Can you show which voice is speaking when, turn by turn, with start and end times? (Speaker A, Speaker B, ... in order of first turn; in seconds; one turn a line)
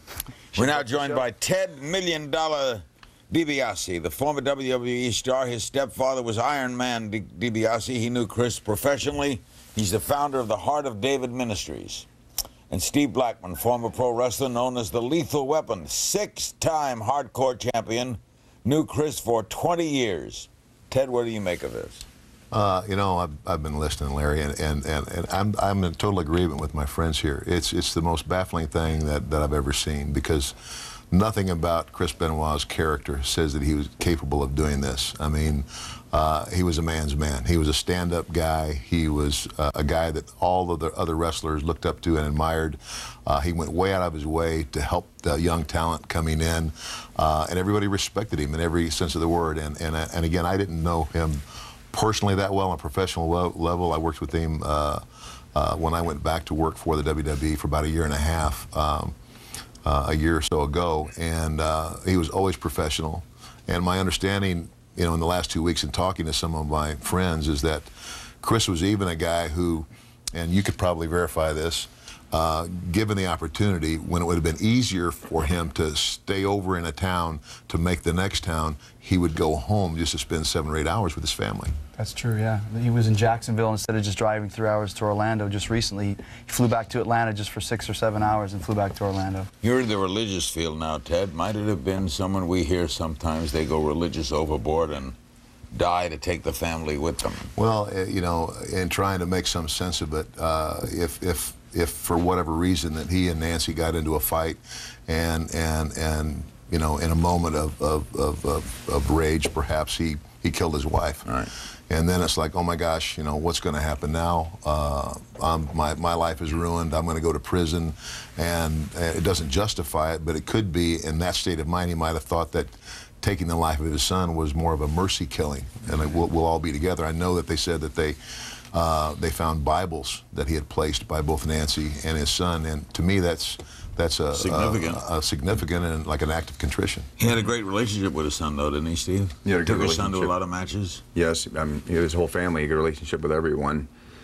Speaker A: 0.5-1.2
Speaker B: 0.5-12.1
Speaker B: 12.7-22.1
Speaker C: 22.5-30.6
Speaker C: 31.1-59.1
Speaker C: 59.8-67.9
Speaker C: 68.4-81.7
Speaker A: 82.0-89.5
Speaker B: 89.6-95.1
Speaker B: 95.7-97.5
Speaker C: 97.5-111.3
Speaker C: 111.9-128.2
Speaker C: 128.7-137.1
Speaker B: 134.3-135.0
Speaker B: 137.2-141.0
Speaker D: 139.4-140.3
Speaker D: 141.1-143.9